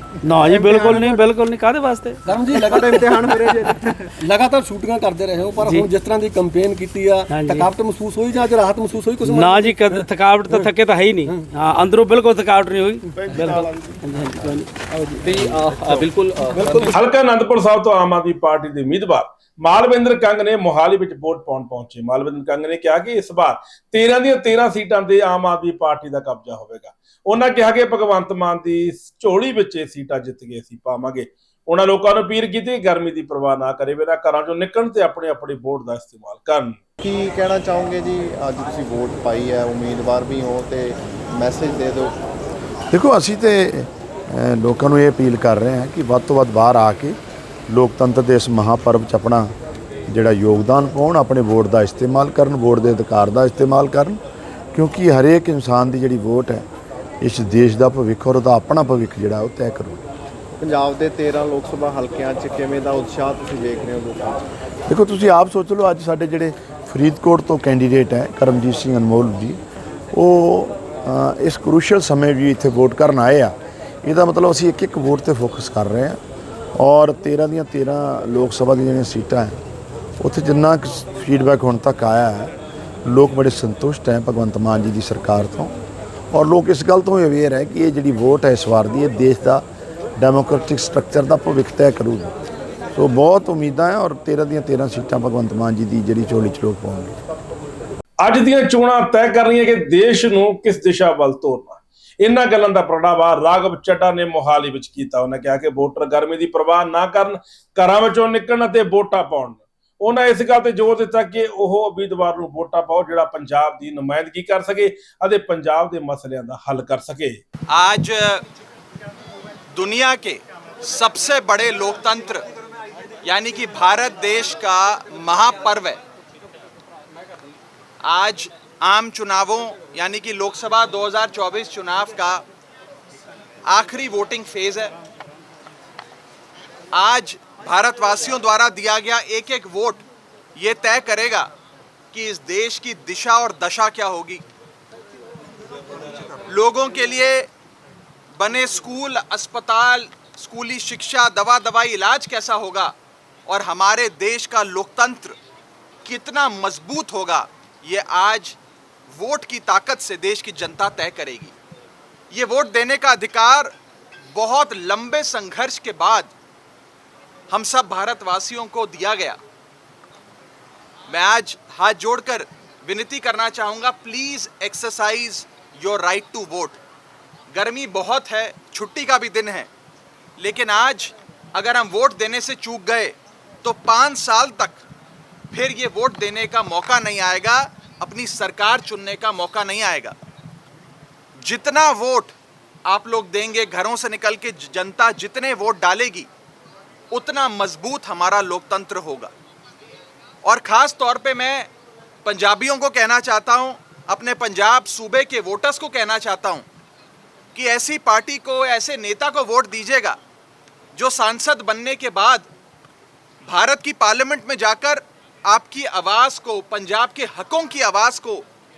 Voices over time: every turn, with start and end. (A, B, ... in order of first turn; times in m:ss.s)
0:00.2-0:02.2 A
0:00.4-0:01.2 B
0:02.2-0:10.7 B
0:07.3-0:07.6 A
0:09.3-0:14.7 A
0:13.2-0:13.7 B
0:14.9-0:16.0 B
0:15.3-0:16.9 A
0:16.5-0:16.9 B
0:16.9-0:36.8 C
0:37.0-0:42.2 D
0:42.9-0:47.2 E
0:47.7-0:49.5 E
0:50.1-0:54.2 E
0:54.7-0:56.7 E
0:57.2-1:00.0 E
1:00.6-1:04.4 D
1:04.9-1:09.6 E
1:10.1-1:16.2 E
1:16.8-1:19.6 E
1:20.2-1:25.8 E
1:26.3-1:29.6 E
1:30.2-1:32.3 E
1:32.9-1:37.2 E
1:38.2-1:57.4 C
1:57.7-1:58.4 F
1:59.7-2:02.4 F
2:03.2-2:06.0 F
2:08.0-2:12.4 F
2:13.7-2:14.9 F
2:16.9-2:20.0 F
2:20.6-2:21.5 F
2:22.1-2:24.4 F
2:26.5-2:27.5 F
2:28.4-2:32.9 F
2:33.5-2:35.4 F
2:36.0-2:38.6 F
2:39.1-2:41.5 F
2:42.3-2:43.7 F
2:44.3-2:46.3 F
2:47.5-2:49.4 F
2:51.1-2:56.8 F
2:57.5-2:59.7 F
3:00.4-3:04.8 F
3:05.5-3:10.2 F
3:11.4-3:12.3 F
3:12.8-3:16.3 F
3:17.1-3:19.3 F
3:20.4-3:21.7 F
3:22.2-3:26.6 F
3:27.5-3:30.2 F
3:30.9-3:32.5 F
3:33.4-3:38.4 F